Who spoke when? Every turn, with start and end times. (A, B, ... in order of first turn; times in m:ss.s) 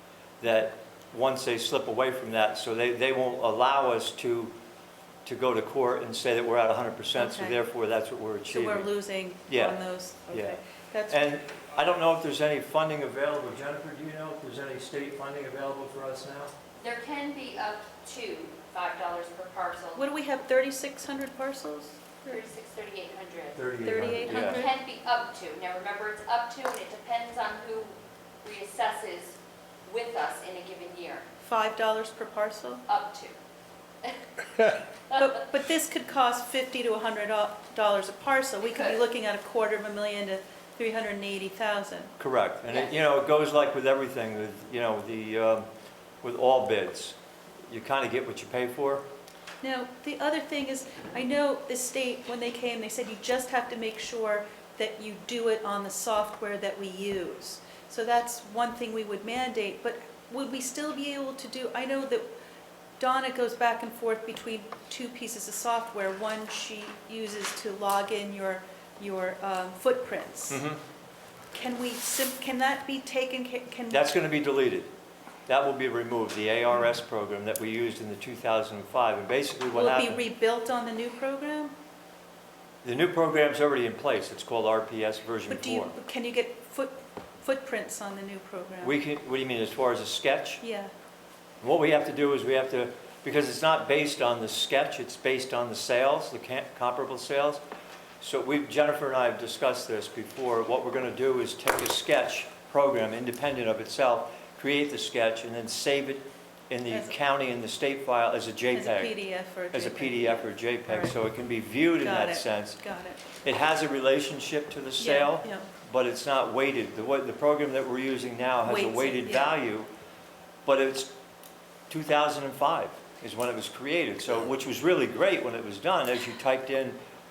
0:00.4-0:04.5 A
0:05.2-0:08.9 A
0:07.1-0:07.6 B
0:08.5-0:11.2 B
0:09.5-0:09.8 A
0:10.3-0:10.6 A
0:11.1-0:16.5 A
0:16.8-0:20.0 C
0:20.0-0:22.4 B
0:22.2-0:23.6 C
0:23.5-0:24.6 A
0:23.8-0:24.7 B
0:24.3-0:31.2 C
0:31.4-0:32.8 B
0:32.9-0:33.3 C
0:34.0-0:34.7 C
0:35.1-0:42.1 B
0:38.6-0:39.0 C
0:42.2-0:45.7 A
0:46.2-0:47.2 A
0:47.7-0:49.0 A
0:49.6-1:02.2 B
1:03.0-1:10.6 B
1:10.5-1:10.8 A
1:11.5-1:14.0 B
1:13.9-1:14.9 A
1:15.5-1:20.2 A
1:19.7-1:21.7 B
1:22.8-1:25.9 A
1:25.5-1:28.9 B
1:28.8-1:30.6 A
1:30.6-1:30.9 B
1:31.6-1:37.6 A
1:38.2-1:49.1 A
1:46.9-1:47.1 B
1:48.7-1:51.1 B
1:49.7-1:52.8 A
1:52.0-1:53.2 B
1:53.4-1:59.9 A
1:55.0-1:55.7 B
1:58.6-1:59.6 B
2:00.6-2:01.1 A
2:01.9-2:07.0 A